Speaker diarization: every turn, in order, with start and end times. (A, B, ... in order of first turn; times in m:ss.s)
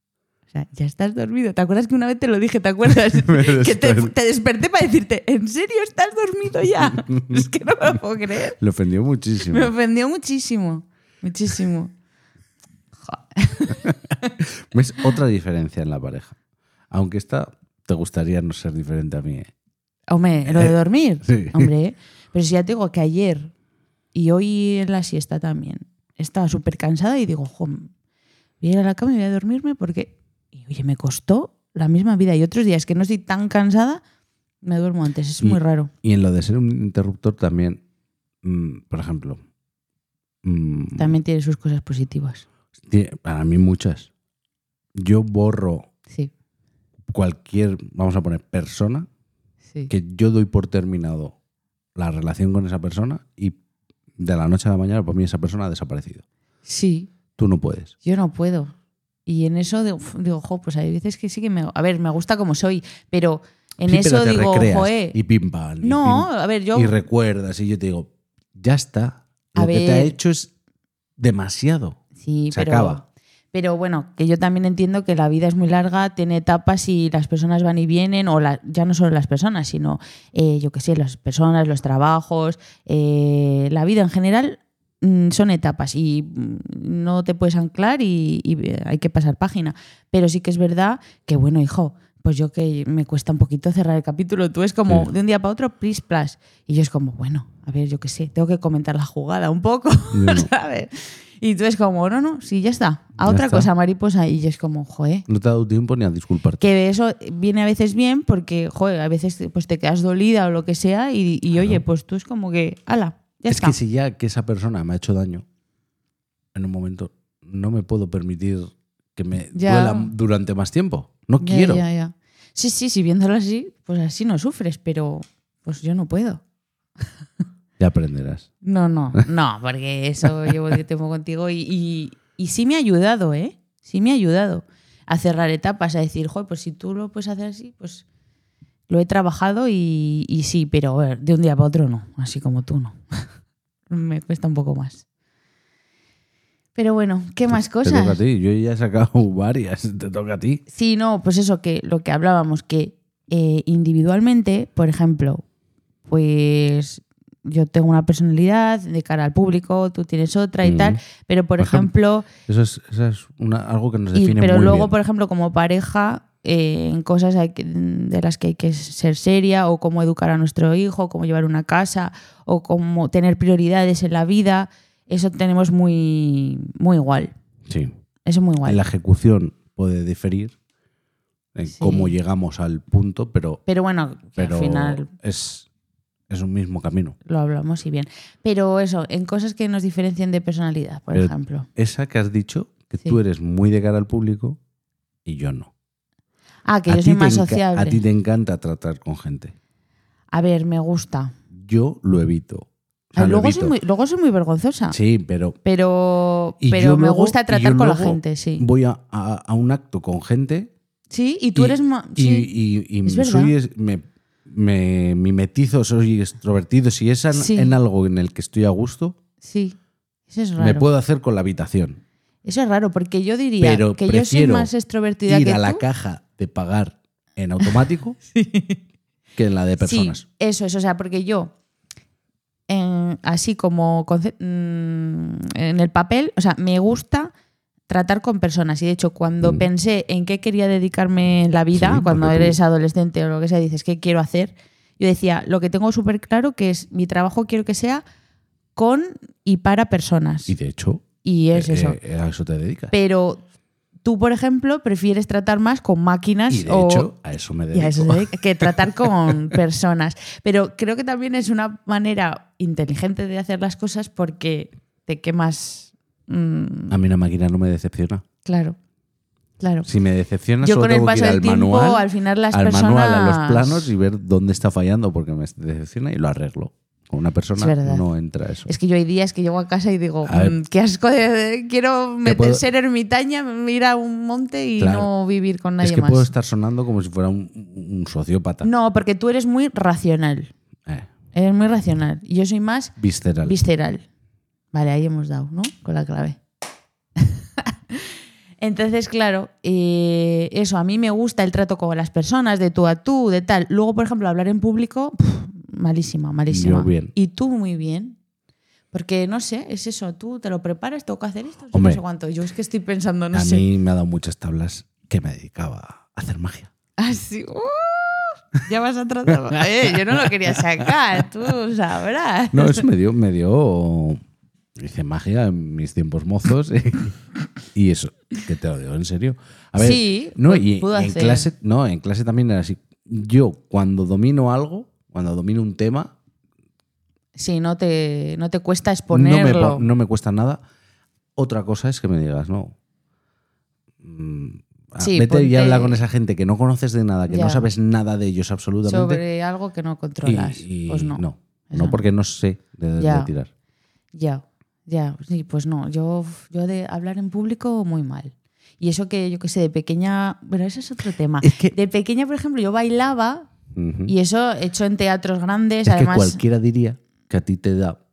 0:00.5-0:08.6 A
0:03.0-0:04.1 B
0:06.9-0:07.4 B
0:08.6-0:09.7 B
0:09.5-0:11.9 A
0:13.0-0:14.3 A
0:13.8-0:16.4 B
0:16.9-0:19.5 B
0:20.1-0:23.5 A
0:20.4-0:21.7 B
0:24.1-0:27.9 A
0:28.6-0:34.0 A
0:34.6-0:35.9 A
0:35.4-0:37.8 B
0:38.4-0:39.4 B
0:40.4-0:41.1 B
0:41.0-0:42.4 A
0:42.8-0:44.1 B
0:44.9-0:45.9 B
0:47.1-0:49.1 B
0:49.9-0:51.3 B
0:51.9-0:53.6 B
0:54.2-0:56.2 B
0:56.6-0:57.1 A
0:57.4-0:57.9 B
0:58.0-0:58.7 A
0:59.2-1:05.2 A
1:03.8-1:10.5 B
1:05.8-1:06.9 A
1:09.6-1:10.2 A
1:11.2-1:12.0 B
1:12.2-1:45.2 A
1:12.5-1:13.0 B
1:40.1-1:40.5 B
1:43.2-1:43.7 B
1:45.3-1:46.6 B
1:46.6-1:53.8 A
1:51.5-1:51.8 B
1:53.5-1:55.4 B
1:56.5-2:01.8 B
1:59.5-2:00.1 A
2:01.4-2:06.4 A
2:07.8-2:08.5 B
2:08.6-2:18.0 A
2:18.9-2:23.2 A
2:23.9-2:25.0 A
2:26.8-2:28.2 A
2:27.5-2:30.6 B
2:30.7-2:35.4 A
2:36.0-2:42.3 A
2:40.6-2:41.0 B
2:41.6-2:44.9 B
2:44.1-2:57.3 A
2:57.7-2:57.9 B
2:58.2-2:58.8 A
2:58.6-3:00.6 B
3:01.5-3:03.6 B
3:01.7-3:02.1 A
3:03.7-3:05.1 A
3:04.4-3:05.6 B
3:06.3-3:07.2 B
3:07.2-3:11.7 A
3:11.1-3:14.6 B
3:15.2-3:15.7 B
3:16.6-3:18.0 A
3:16.9-3:19.5 B
3:20.3-3:21.3 A
3:21.5-3:23.7 B
3:23.2-3:25.0 A
3:24.9-3:25.6 B
3:25.6-3:28.6 A
3:26.6-3:30.7 B
3:31.1-3:32.5 A
3:31.5-3:39.2 B
3:33.0-3:33.5 A
3:37.3-3:37.7 A
3:39.4-3:39.8 A
3:40.3-3:40.8 A
3:40.6-3:42.0 B
3:42.4-3:45.8 A
3:43.6-3:44.7 B
3:45.3-3:48.2 B
3:48.3-3:48.8 A
3:49.4-3:50.2 B
3:49.8-3:51.5 A
3:52.7-3:57.3 A
3:57.9-4:08.0 A
4:01.7-4:02.6 B
4:08.7-4:10.5 A
4:10.5-4:12.9 B
4:11.2-4:12.0 A
4:12.9-4:13.4 A
4:14.0-4:17.1 A
4:16.5-4:18.8 B
4:17.7-4:27.0 A
4:26.9-4:28.2 B
4:28.4-4:28.8 A
4:29.6-4:29.9 A
4:29.8-4:38.7 B
4:30.6-4:33.9 A
4:37.6-4:38.0 A
4:38.6-4:46.3 A
4:40.2-4:40.5 B
4:42.2-4:42.6 B
4:44.8-4:45.1 B
4:45.8-4:48.7 B
4:48.6-4:50.5 A
4:51.3-4:54.0 A
4:53.0-4:53.6 B
4:54.7-4:56.4 A
4:58.6-5:08.2 A
5:06.5-5:07.1 B
5:08.9-5:13.6 A
5:11.7-5:12.0 B
5:13.3-5:16.7 B
5:17.0-5:22.9 A
5:19.5-5:20.9 B
5:22.5-5:24.2 B
5:24.8-5:27.2 B
5:27.7-5:36.1 B
5:29.8-5:31.5 A
5:37.3-5:39.9 A
5:39.1-5:40.6 B
5:41.4-5:42.7 B
5:44.0-5:49.2 B
5:45.0-5:46.0 A
5:47.3-5:47.7 A
5:48.8-5:52.0 A
5:50.2-5:53.5 B
5:53.0-5:53.3 A
5:54.1-6:03.5 A
6:01.4-6:01.7 B
6:03.7-6:04.1 B
6:04.1-6:06.4 A
6:05.8-6:08.0 B